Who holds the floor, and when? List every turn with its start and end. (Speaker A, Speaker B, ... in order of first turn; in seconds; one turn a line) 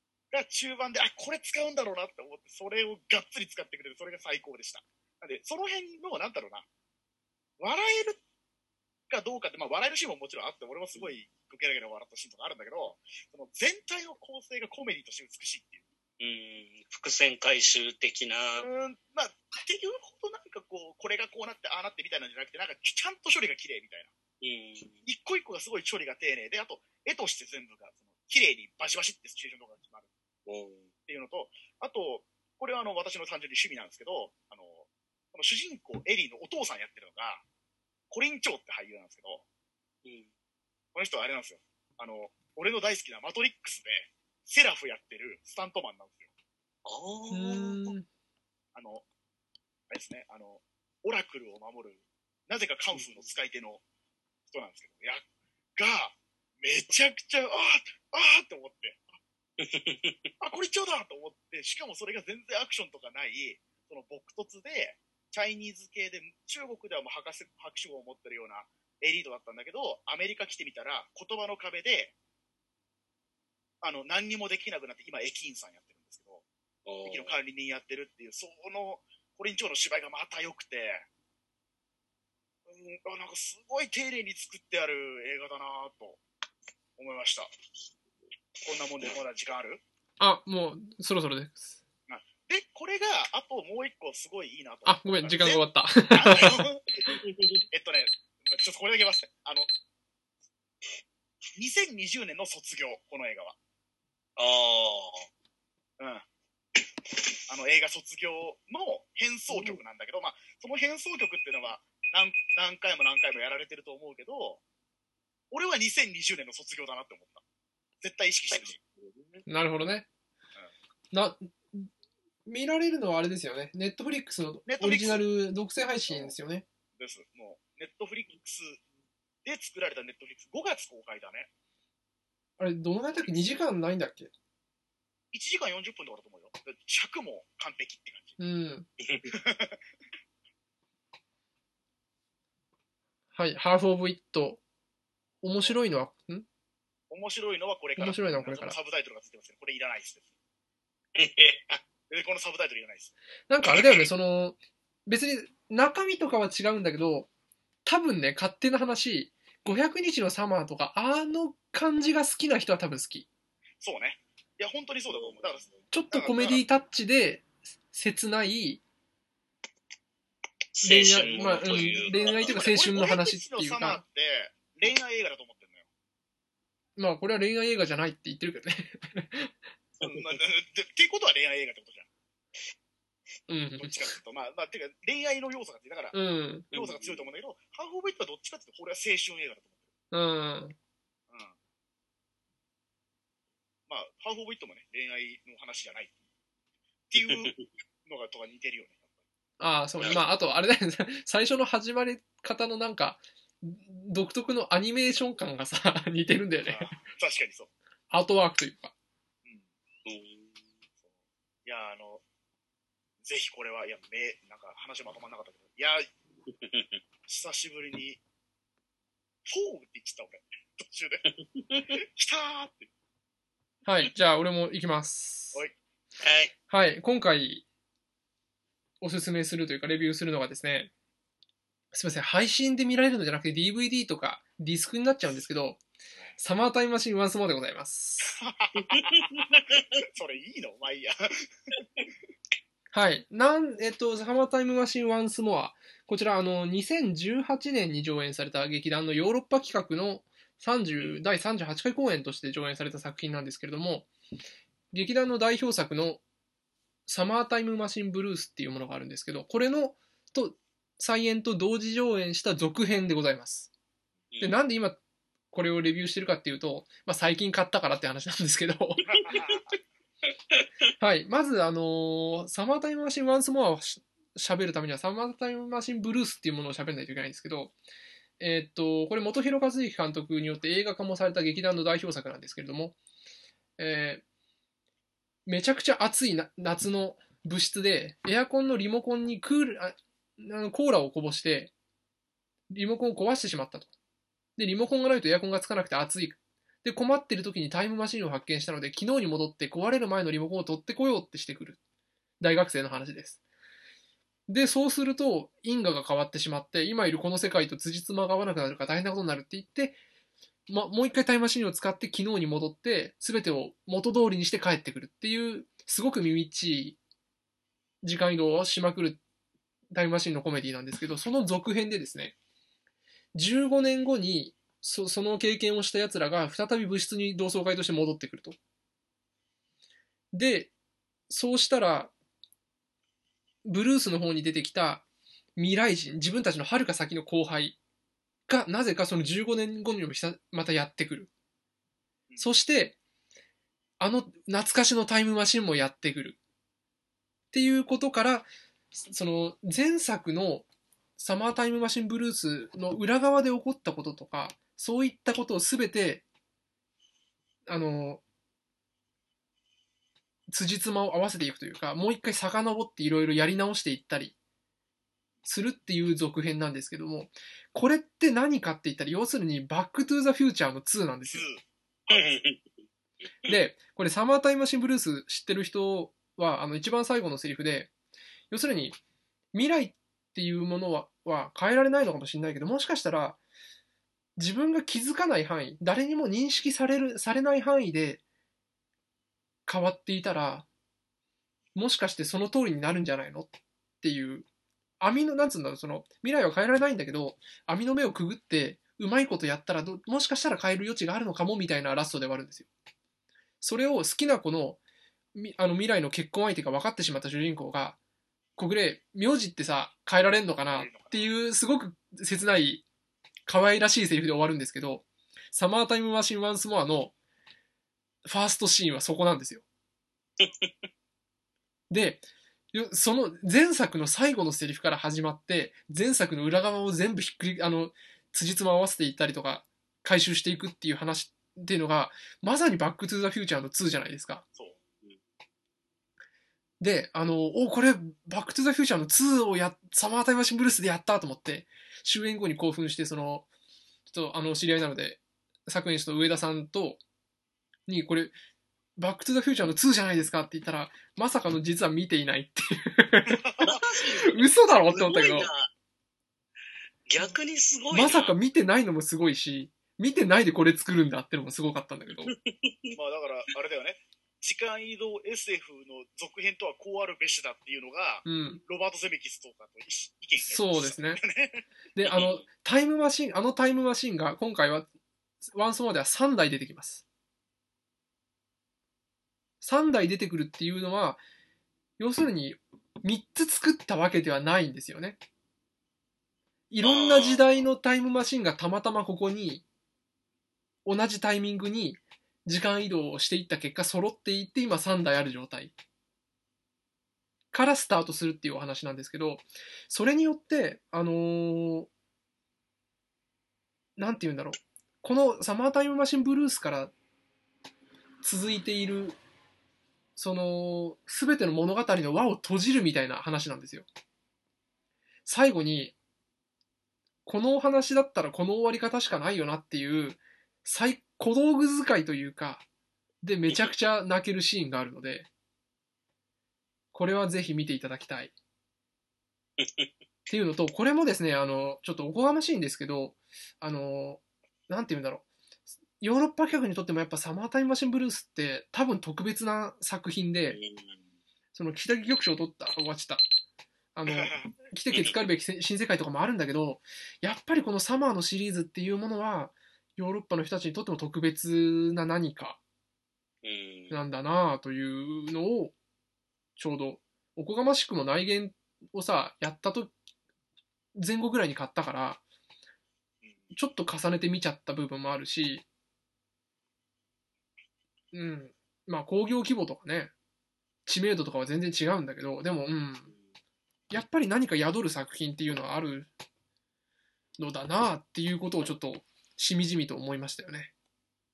Speaker A: 0.3-6.7
Speaker A: 7.6-8.2
Speaker A: 9.1-15.8
Speaker B: 16.2-18.7
Speaker A: 18.6-24.1
Speaker B: 24.4-25.0
Speaker A: 25.0-30.1
Speaker B: 30.4-30.9
Speaker A: 31.1-37.4
Speaker A: 38.1-39.4
Speaker A: 40.9-46.3
Speaker B: 46.9-47.9
Speaker C: 47.3-48.1
Speaker A: 48.7-49.0
Speaker A: 49.9-53.8
Speaker A: 54.5-55.2
Speaker A: 55.8-59.1
Speaker B: 59.6-60.3
Speaker A: 60.4-72.1
Speaker A: 73.8-76.4
Speaker B: 76.8-77.3
Speaker A: 77.0-81.1
Speaker A: 82.7-86.2
Speaker A: 87.0-87.5
Speaker A: 88.6-89.8
Speaker C: 90.2-91.8
Speaker A: 92.1-97.0
Speaker C: 94.8-96.7
Speaker B: 97.1-97.6
Speaker A: 97.7-99.7
Speaker A: 101.5-103.6
Speaker B: 104.4-105.3
Speaker A: 106.0-106.2
Speaker A: 107.5-114.6
Speaker A: 115.5-117.4
Speaker A: 118.0-118.8
Speaker B: 118.5-119.4
Speaker C: 119.5-120.1
Speaker C: 121.1-121.9
Speaker C: 122.5-126.6
Speaker A: 124.7-125.2
Speaker A: 127.0-128.8
Speaker A: 129.4-131.5
Speaker C: 132.6-134.3
Speaker A: 135.3-138.4
Speaker C: 138.4-138.9
Speaker B: 139.0-139.3
Speaker A: 139.3-139.8
Speaker C: 143.3-144.6
Speaker C: 145.4-146.4
Speaker A: 147.1-150.3
Speaker C: 148.0-148.8
Speaker B: 151.2-151.8
Speaker A: 152.1-153.1
Speaker C: 153.5-157.3
Speaker C: 157.8-163.3
Speaker A: 163.8-166.6
Speaker B: 165.1-165.7
Speaker C: 165.9-168.8
Speaker B: 170.7-172.7
Speaker C: 170.8-174.0
Speaker A: 171.2-175.8
Speaker C: 177.0-179.5
Speaker B: 180.0-180.3
Speaker A: 180.0-182.1
Speaker C: 183.5-184.1
Speaker A: 183.8-186.2
Speaker C: 186.1-186.7
Speaker A: 186.7-189.8
Speaker B: 186.7-187.2
Speaker C: 190.1-190.7
Speaker A: 191.3-191.5
Speaker A: 193.9-196.2
Speaker A: 197.1-199.1
Speaker B: 197.2-197.6
Speaker C: 199.6-206.9
Speaker A: 206.6-207.7
Speaker C: 208.1-208.9
Speaker B: 210.1-210.5
Speaker A: 211.6-212.2
Speaker A: 213.2-216.1
Speaker B: 216.6-217.0
Speaker A: 217.3-218.2
Speaker A: 219.4-221.2
Speaker B: 221.6-222.0
Speaker A: 222.0-222.9
Speaker C: 223.8-225.6
Speaker B: 226.2-226.5
Speaker C: 226.7-227.6
Speaker C: 229.0-230.9
Speaker C: 231.9-235.8
Speaker C: 236.4-238.3
Speaker A: 238.3-241.2
Speaker B: 238.8-239.8
Speaker C: 242.9-254.1
Speaker C: 254.9-256.2
Speaker C: 257.1-263.7
Speaker B: 264.3-264.6
Speaker C: 264.4-265.0
Speaker C: 265.5-269.1
Speaker A: 269.1-269.6
Speaker C: 271.0-277.7
Speaker C: 278.4-282.9
Speaker C: 283.8-284.2
Speaker C: 285.4-291.7
Speaker C: 292.7-293.9
Speaker C: 294.6-301.8
Speaker C: 302.4-303.4
Speaker C: 304.5-310.0
Speaker C: 310.7-317.0
Speaker C: 318.0-319.2
Speaker C: 319.9-322.4
Speaker C: 323.3-328.6
Speaker C: 330.3-330.7
Speaker C: 331.3-332.1
Speaker C: 333.6-337.8
Speaker C: 338.5-341.3
Speaker C: 342.4-342.9
Speaker C: 344.0-346.4
Speaker C: 347.5-356.2
Speaker C: 357.7-358.2
Speaker C: 360.5-364.3
Speaker C: 365.4-371.4
Speaker A: 371.2-372.3
Speaker B: 372.1-372.6
Speaker C: 373.5-377.9
Speaker C: 378.5-379.0
Speaker C: 379.5-383.4
Speaker C: 384.4-388.2
Speaker C: 389.7-390.6
Speaker C: 391.7-393.5
Speaker C: 394.0-394.4
Speaker C: 395.0-402.7
Speaker C: 403.6-404.8
Speaker C: 405.3-408.0
Speaker C: 408.6-412.8
Speaker A: 410.6-411.3
Speaker C: 413.4-417.1
Speaker C: 418.2-419.6
Speaker B: 420.4-420.7
Speaker C: 421.9-434.4
Speaker C: 436.8-443.5
Speaker C: 444.1-447.0
Speaker C: 447.9-448.3
Speaker C: 449.0-453.7
Speaker A: 453.3-453.8
Speaker B: 453.6-455.7
Speaker C: 454.2-455.5
Speaker B: 457.1-458.3
Speaker C: 457.9-462.3
Speaker B: 462.3-462.9
Speaker A: 462.9-471.6
Speaker C: 468.2-468.6
Speaker C: 470.4-471.2
Speaker C: 471.9-474.9
Speaker B: 472.1-472.4
Speaker C: 475.4-477.0
Speaker C: 479.6-481.2
Speaker C: 482.0-485.2
Speaker C: 486.7-489.6
Speaker B: 486.8-487.5
Speaker C: 490.8-495.7
Speaker C: 497.5-501.9
Speaker C: 504.0-506.9
Speaker C: 508.2-509.2
Speaker C: 510.1-513.9
Speaker C: 515.2-515.9
Speaker C: 517.2-522.6
Speaker C: 523.2-525.3
Speaker C: 526.9-528.3
Speaker B: 529.6-529.9
Speaker C: 530.3-535.3
Speaker C: 536.0-540.6
Speaker B: 540.5-541.0
Speaker C: 541.5-543.2
Speaker C: 543.9-552.6
Speaker A: 544.1-544.5
Speaker B: 544.9-545.2
Speaker B: 553.4-554.0
Speaker C: 553.9-555.7
Speaker C: 556.5-559.9
Speaker C: 560.9-562.2
Speaker A: 563.2-563.5
Speaker C: 563.5-565.6
Speaker C: 568.1-570.1
Speaker C: 570.9-573.1
Speaker C: 573.9-576.1
Speaker C: 577.4-580.7